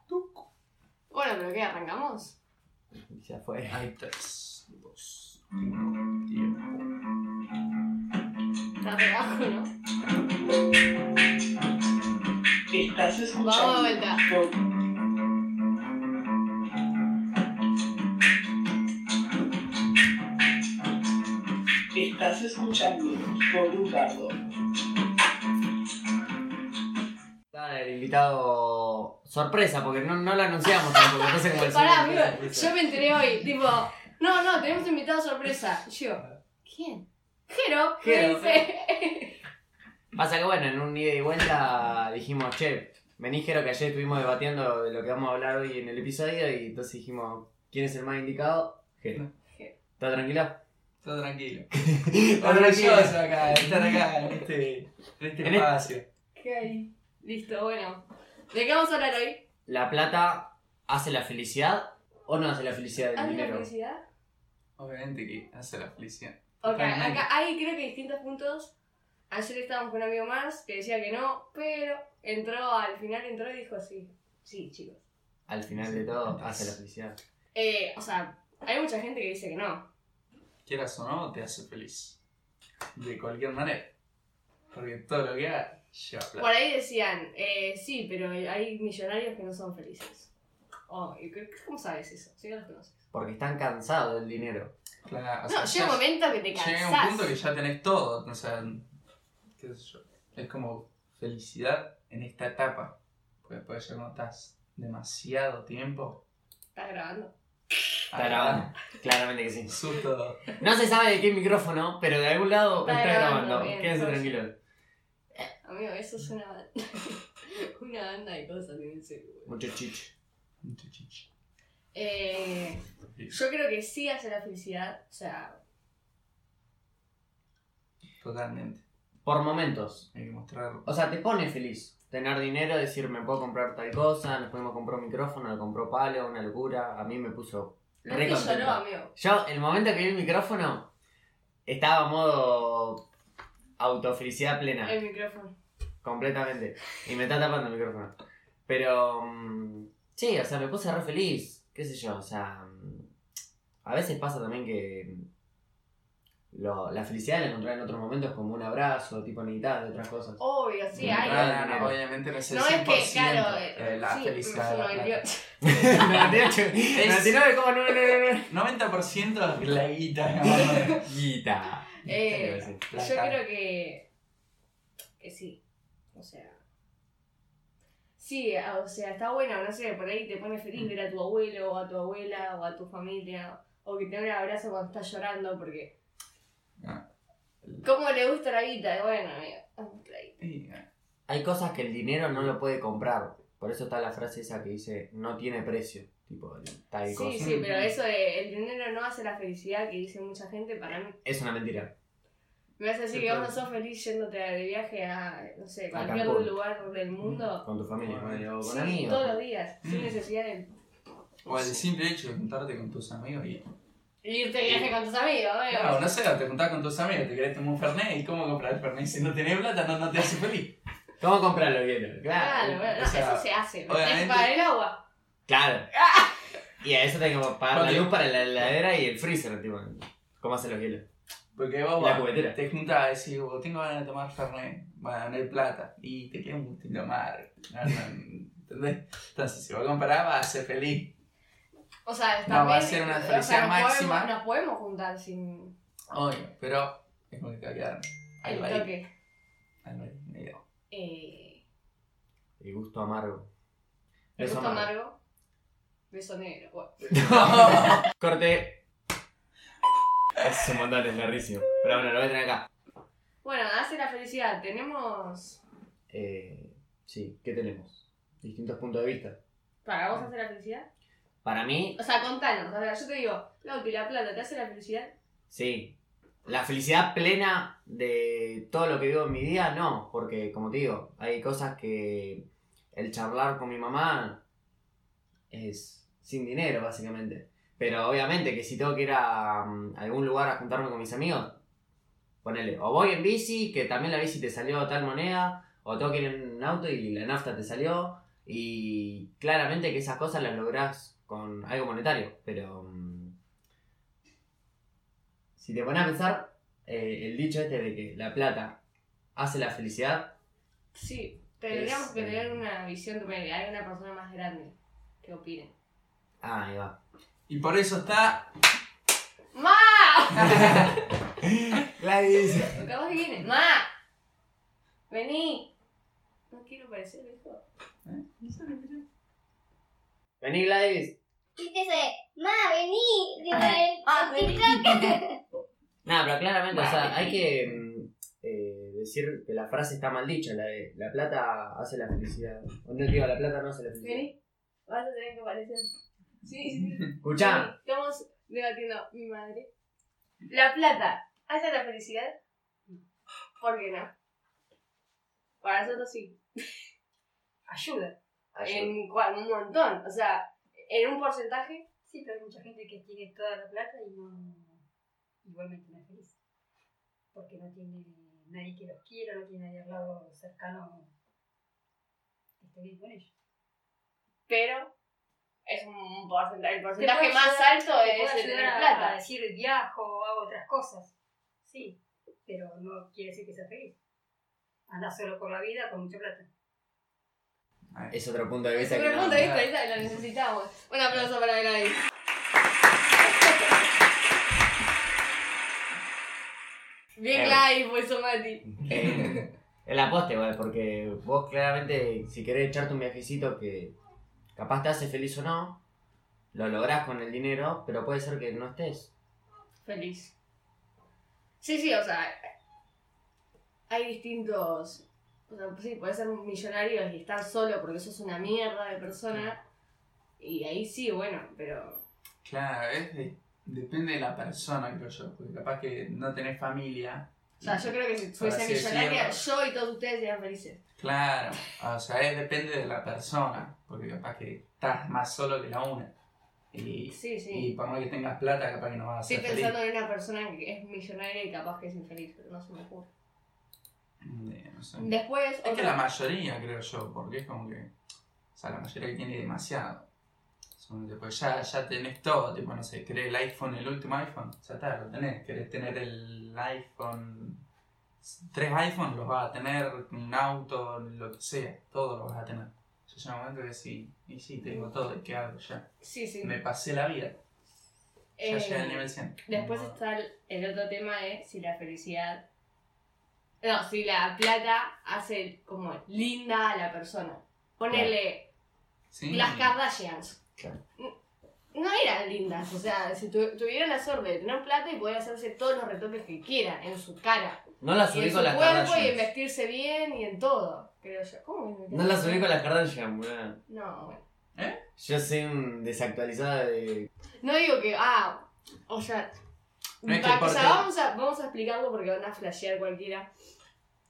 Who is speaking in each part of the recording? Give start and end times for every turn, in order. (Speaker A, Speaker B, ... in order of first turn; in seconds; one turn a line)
Speaker A: 0.1-0.4
Speaker B: 1.1-2.4
Speaker C: 2.9-3.8
Speaker A: 3.7-6.8
Speaker B: 8.8-9.7
Speaker D: 12.7-14.6
Speaker B: 13.4-14.2
Speaker D: 21.9-24.4
Speaker C: 27.5-32.7
Speaker B: 31.5-39.4
Speaker C: 38.0-38.6
Speaker C: 40.1-49.2
Speaker B: 49.5-49.8
Speaker C: 50.0-50.6
Speaker A: 51.0-51.7
Speaker C: 51.7-53.7
Speaker A: 52.4-56.0
Speaker C: 55.4-55.7
Speaker B: 56.3-59.5
Speaker C: 59.7-63.7
Speaker B: 63.1-64.0
Speaker A: 64.8-67.2
Speaker B: 66.6-68.7
Speaker B: 69.3-75.0
Speaker C: 75.5-77.2
Speaker A: 75.7-76.8
Speaker B: 77.5-79.9
Speaker A: 80.6-82.2
Speaker A: 82.9-83.9
Speaker A: 84.7-86.5
Speaker B: 86.4-90.3
Speaker B: 90.9-93.0
Speaker C: 93.1-94.7
Speaker A: 95.0-98.9
Speaker B: 95.5-97.3
Speaker A: 99.6-106.2
Speaker B: 106.7-107.3
Speaker A: 108.1-108.7
Speaker C: 108.1-109.8
Speaker A: 109.7-110.4
Speaker C: 110.6-114.5
Speaker B: 112.8-114.4
Speaker B: 115.6-119.5
Speaker C: 119.5-120.1
Speaker A: 120.6-121.2
Speaker B: 121.9-125.6
Speaker A: 123.0-123.3
Speaker A: 128.2-128.8
Speaker C: 129.2-130.1
Speaker A: 130.1-130.8
Speaker C: 130.8-140.9
Speaker B: 138.0-139.1
Speaker C: 141.7-143.0
Speaker C: 143.8-144.9
Speaker B: 144.8-145.5
Speaker C: 146.0-148.1
Speaker C: 148.7-153.1
Speaker C: 153.8-155.3
Speaker C: 156.5-160.4
Speaker B: 160.4-161.5
Speaker C: 160.9-161.9
Speaker A: 161.0-165.2
Speaker B: 162.5-166.4
Speaker C: 165.6-168.5
Speaker A: 165.9-166.3
Speaker A: 166.9-167.4
Speaker A: 168.5-171.1
Speaker C: 171.0-172.8
Speaker B: 172.0-174.1
Speaker A: 172.9-173.4
Speaker B: 175.2-175.6
Speaker B: 176.1-176.6
Speaker B: 178.2-185.9
Speaker A: 186.8-187.1
Speaker B: 187.8-190.3
Speaker A: 190.4-190.8
Speaker C: 191.3-197.5
Speaker B: 197.1-201.2
Speaker A: 197.4-197.9
Speaker C: 201.2-201.9
Speaker B: 202.8-207.6
Speaker A: 203.1-203.5
Speaker C: 205.9-206.5
Speaker A: 207.2-207.5
Speaker C: 207.6-209.4
Speaker A: 208.0-208.5
Speaker B: 208.6-210.7
Speaker A: 209.8-210.1
Speaker B: 211.4-211.8
Speaker A: 211.4-213.7
Speaker B: 214.2-216.1
Speaker A: 215.7-220.7
Speaker C: 221.2-222.8
Speaker B: 222.3-225.0
Speaker A: 222.7-224.5
Speaker C: 225.5-225.9
Speaker C: 226.8-231.0
Speaker A: 227.7-228.1
Speaker A: 231.5-241.1
Speaker C: 232.0-232.6
Speaker B: 242.1-245.7
Speaker A: 242.4-244.3
Speaker A: 246.1-248.9
Speaker B: 248.4-249.1
Speaker A: 249.8-250.6
Speaker B: 250.9-251.6
Speaker C: 252.6-253.5
Speaker B: 254.4-255.2
Speaker C: 254.4-254.9
Speaker B: 256.1-257.1
Speaker C: 257.1-258.8
Speaker A: 257.2-258.1
Speaker C: 260.4-262.7
Speaker B: 263.4-265.6
Speaker C: 266.1-269.4
Speaker B: 269.8-270.9
Speaker C: 271.4-272.0
Speaker B: 271.9-275.1
Speaker C: 275.5-275.9
Speaker C: 276.4-284.4
Speaker C: 285.5-291.6
Speaker C: 292.4-303.3
Speaker C: 305.6-308.8
Speaker C: 309.4-310.3
Speaker B: 310.9-315.7
Speaker C: 311.7-312.6
Speaker C: 316.4-317.0
Speaker A: 317.5-318.5
Speaker B: 319.5-321.0
Speaker A: 320.4-320.9
Speaker C: 321.4-322.8
Speaker B: 322.5-323.9
Speaker B: 325.1-325.7
Speaker B: 326.5-327.6
Speaker A: 328.0-329.0
Speaker C: 330.4-331.1
Speaker E: 331.6-335.4
Speaker A: 333.5-335.0
Speaker C: 336.0-344.3
Speaker B: 344.0-344.4
Speaker B: 344.9-345.9
Speaker B: 346.4-349.7
Speaker C: 347.2-347.7
Speaker B: 350.5-352.4
Speaker B: 353.6-354.1
Speaker B: 355.6-356.4
Speaker F: 357.7-358.2
Speaker C: 358.5-358.9
Speaker B: 358.6-361.9
Speaker F: 362.1-364.8
Speaker F: 365.4-366.4
Speaker F: 367.3-371.1
Speaker F: 372.6-373.3
Speaker B: 374.5-374.9
Speaker B: 375.6-379.2
Speaker F: 377.0-381.1
Speaker F: 381.6-383.9
Speaker F: 384.9-386.5
Speaker C: 388.1-389.5
Speaker B: 388.7-392.0
Speaker A: 389.2-390.2
Speaker B: 393.2-393.7
Speaker B: 397.2-399.4
Speaker C: 397.3-397.6
Speaker C: 398.9-403.9
Speaker A: 398.9-399.4
Speaker C: 404.5-405.8
Speaker C: 406.5-409.1
Speaker B: 409.8-410.3
Speaker B: 411.6-412.5
Speaker B: 413.9-419.6
Speaker B: 420.4-422.0
Speaker A: 422.4-429.4
Speaker B: 427.6-430.8
Speaker A: 431.0-436.1
Speaker A: 436.7-439.7
Speaker B: 437.1-437.7
Speaker B: 439.3-443.1
Speaker A: 444.2-447.9
Speaker B: 445.0-445.9
Speaker A: 448.5-450.1
Speaker A: 450.8-457.6
Speaker A: 458.2-465.9
Speaker B: 466.0-466.6
Speaker A: 466.4-467.4
Speaker B: 468.4-472.4
Speaker A: 468.4-470.0
Speaker B: 473.6-478.5
Speaker A: 479.1-479.7
Speaker B: 479.3-480.4
Speaker B: 481.7-492.5
Speaker C: 487.8-489.2
Speaker C: 491.9-493.6
Speaker B: 493.7-494.2
Speaker A: 494.6-494.8
Speaker C: 495.0-497.1
Speaker B: 497.4-499.3
Speaker B: 500.0-503.3
Speaker A: 500.0-500.9